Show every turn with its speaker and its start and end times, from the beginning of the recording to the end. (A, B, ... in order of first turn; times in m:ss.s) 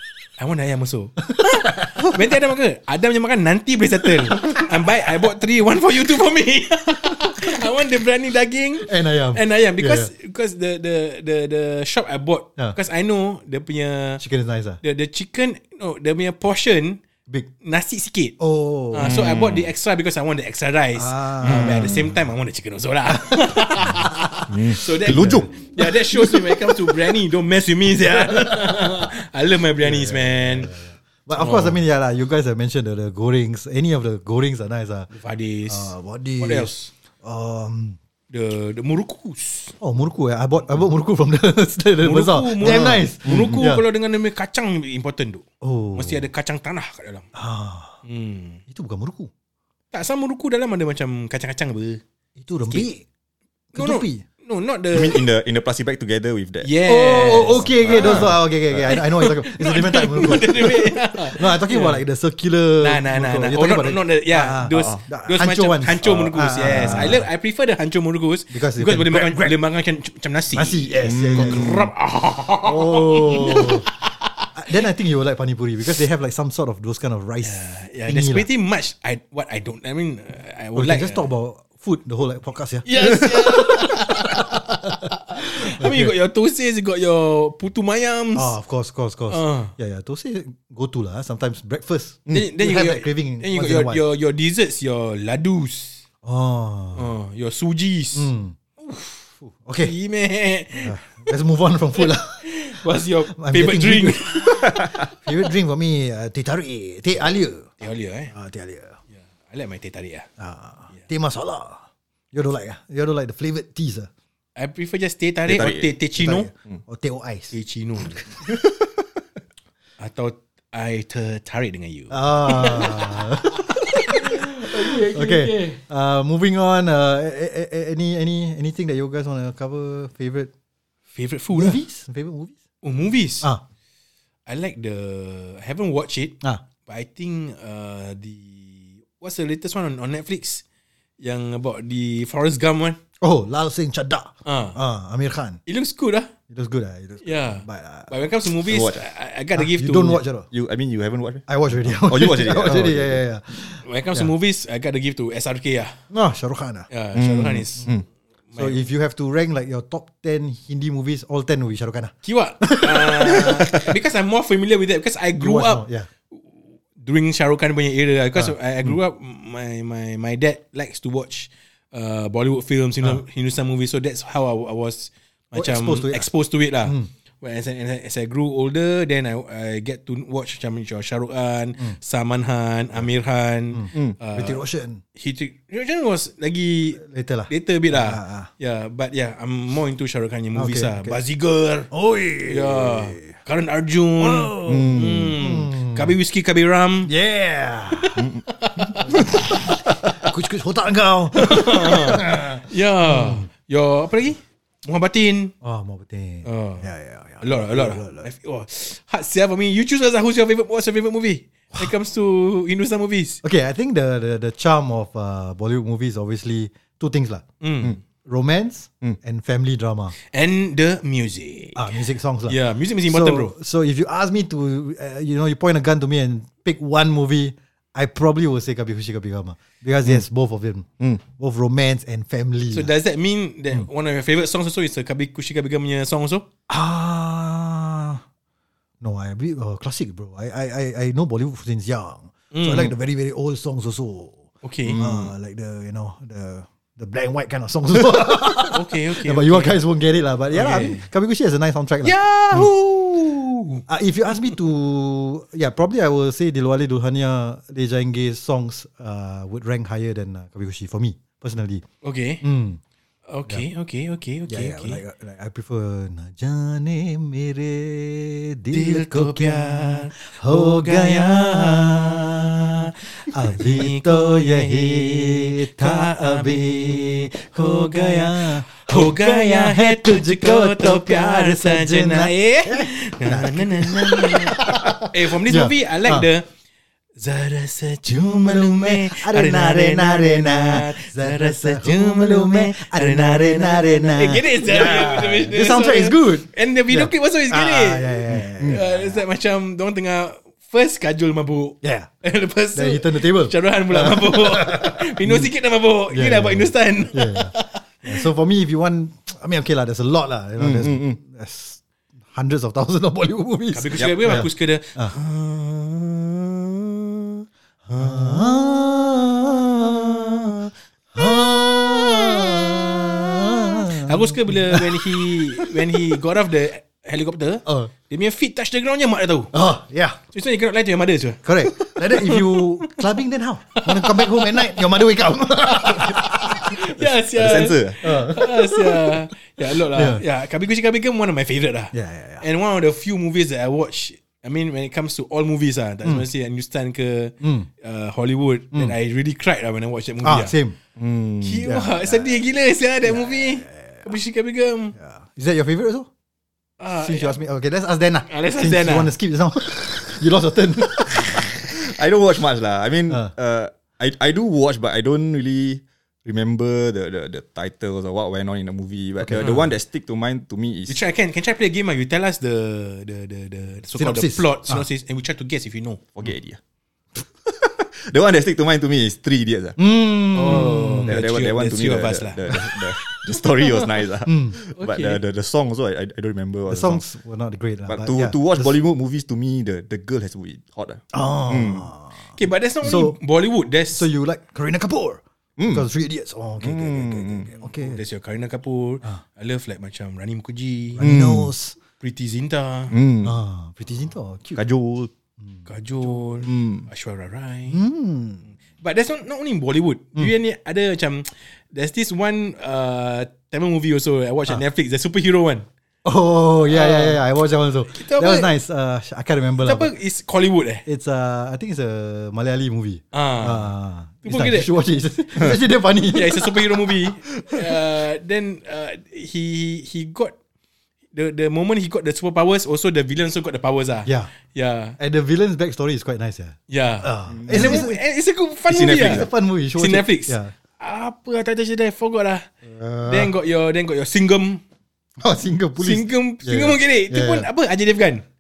0:00.4-0:14.2 A
0:01.4-0:02.2 B
0:08.8-0:10.1 B
0:14.2-0:14.8 B
0:14.8-0:17.0 A
0:17.6-0:18.4 A
0:18.4-0:19.2 B
0:18.9-0:30.7 A
0:19.0-0:19.7 C
0:21.0-0:22.1 B
0:21.4-0:21.9 C
0:23.8-0:24.1 B
0:24.5-0:25.5 C
0:25.0-0:27.0 B
0:28.1-0:28.8 B
0:29.8-0:35.1 B
0:31.4-0:31.8 A
0:35.1-0:36.9 A
0:35.7-0:36.7 B
0:37.2-0:38.0 B
0:38.3-0:39.8 A
0:39.8-0:43.8 B
0:42.0-0:47.3 A
0:43.3-0:43.6 C
0:45.6-0:46.2 B
0:47.4-0:48.0 B
0:48.0-0:48.6 A
0:48.7-0:49.3 B
0:49.9-0:52.0 A
0:52.4-0:53.0 B
0:53.7-0:54.2 B
0:53.8-0:55.2 A
0:54.9-0:56.7 C
0:56.6-1:02.0 A
0:56.8-1:07.3 B
0:57.8-0:58.3 C
1:02.8-1:14.5 A
1:04.7-1:05.0 C
1:08.5-1:09.6 B
1:10.5-1:11.8 B
1:11.1-1:11.8 C
1:12.6-1:13.9 B
1:14.6-1:18.5 B
1:17.4-1:21.3 A
1:20.8-1:25.1 B
1:22.8-1:28.5 A
1:25.6-1:26.1 B
1:28.4-1:34.0 B
1:29.3-1:29.7 A
1:32.3-1:36.0 A
1:36.2-1:37.1 B
1:36.9-1:38.3 A
1:38.2-1:38.6 B
1:38.8-1:39.2 A
1:39.4-1:39.9 B
1:39.8-1:41.3 A
1:40.8-1:42.5 B
1:42.0-1:45.0 A
1:43.3-1:47.7 B
1:47.8-1:48.3 A
1:48.3-1:49.0 B
1:49.2-1:50.3 A
1:50.4-1:54.1 B
1:54.6-1:56.5 A
1:55.5-1:55.9 C
1:56.2-1:57.6 B
1:57.5-1:58.2 A
2:00.0-2:03.2 A
2:02.1-2:10.5 B
2:03.8-2:05.8 A
2:11.1-2:11.8 A
2:11.5-2:12.6 B
2:12.8-2:13.5 A
2:14.5-2:20.6 A
2:21.2-2:23.0 A
2:23.2-2:25.6 B
2:24.4-2:24.8 A
2:25.7-2:26.3 A
2:26.5-2:28.1 B
2:27.2-2:30.2 A
2:28.7-2:29.0 C
2:29.6-2:30.5 B
2:30.5-2:33.2 C
2:31.5-2:34.3 B
2:33.8-2:36.0 A
2:36.1-2:36.9 B
2:36.9-2:37.9 A
2:37.2-2:38.0 C
2:38.5-2:38.8 A
2:38.6-2:43.6 B
2:42.2-3:04.6 A
2:45.4-2:46.1 B
2:55.5-2:56.3 B
3:03.7-3:05.0 B
3:05.2-3:11.9 A
3:07.0-3:08.5 B
3:10.6-3:11.2 B
3:11.9-3:13.4 B
3:12.5-3:17.1 A
3:14.2-3:16.2 B
3:14.7-3:15.3 C
3:17.1-3:18.2 B
3:18.2-3:19.2 C
3:18.5-3:19.4 A
3:19.1-3:23.5 B
3:21.3-3:25.6 A
3:25.6-3:28.3 B
3:26.4-3:26.9 A
3:27.4-3:33.4 A
3:33.4-3:37.4 B
3:37.6-3:38.0 A
3:38.2-3:40.2 B
3:40.2-3:42.0 A
3:41.8-3:52.9 B
3:42.5-3:43.5 A
3:52.7-3:56.5 A
3:56.7-3:58.2 B
3:59.0-4:12.6 B
4:02.5-4:02.9 A
4:04.6-4:05.0 A
4:04.9-4:05.3 C
4:08.7-4:09.8 A
4:10.5-4:11.1 A
4:12.0-4:13.8 A
4:13.9-4:21.8 B
4:22.0-4:22.4 A
4:22.4-4:22.8 B
4:23.3-4:25.0 A
4:24.5-4:32.8 B
4:28.7-4:32.0 A
4:32.8-4:46.5 A
4:33.3-4:46.3 B
4:47.2-5:08.1 A
4:48.1-4:59.2 B
5:01.8-5:02.1 B
5:02.8-5:05.5 B
5:06.1-5:07.5 B
5:08.0-5:15.1 B
5:10.6-5:11.2 C
5:13.7-5:18.5 A
5:14.0-5:14.4 C
5:17.9-5:20.5 B
5:19.9-5:20.7 A
5:21.1-5:25.7 B
5:23.9-5:29.5 A
5:27.7-5:27.9 B
5:29.5-5:30.2 B
5:30.3-5:33.0 A
5:31.4-5:36.7 B
5:33.8-5:34.7 A
5:35.6-5:50.6 A
5:37.4-5:38.1 C
5:38.0-5:40.2 B
5:41.9-5:42.4 B
5:47.4-5:47.7 B
5:50.2-5:50.8 B
5:51.0-5:51.7 C
5:51.4-5:55.0 A
5:51.6-5:52.2 B
5:53.1-5:54.1 B
5:55.0-5:56.1 B
5:56.8-5:57.4 A
5:57.0-6:01.6 B
5:58.3-5:59.1 A
6:01.3-6:11.0 C
6:09.2-6:09.6 B
6:10.9-6:16.0 A
6:14.0-6:14.9 B
6:16.2-6:16.6 C
6:17.5-6:19.8 C
6:19.8-6:21.2 B
6:20.3-6:23.8 A
6:21.1-6:27.0 C
6:24.3-6:24.6 B
6:24.5-6:25.2 A
6:26.7-6:28.7 B
6:27.9-6:31.9 C
6:31.1-6:33.2 B
6:32.4-6:34.1 A
6:33.9-6:38.0 B
6:35.6-6:35.9 C
6:36.6-6:37.5 C
6:37.6-6:41.0 A
6:41.0-6:41.8 B
6:41.0-6:41.5 C
6:42.0-6:42.9 A
6:42.9-6:43.4 C
6:43.2-6:44.6 B
6:44.6-6:45.1 C
6:45.7-6:47.8 A
6:46.4-6:46.9 C
6:47.7-6:48.4 B
6:48.8-6:55.7 A
6:56.0-6:59.9 B
6:56.7-6:57.2 A
6:57.9-6:58.5 A
6:59.6-7:00.8 A
7:00.8-7:07.8 B
7:03.1-7:03.7 A
7:04.2-7:04.7 A
7:06.1-7:10.4 A
7:11.1-7:15.0 A
7:14.0-7:14.3 B
7:15.0-7:18.0 B
7:16.7-7:22.5 A
7:17.3-7:17.9 C
7:18.7-7:19.3 C
7:18.9-7:20.5 B
7:22.6-7:23.3 B
7:23.1-7:24.6 A
7:25.2-7:27.5 B
7:25.8-7:28.2 A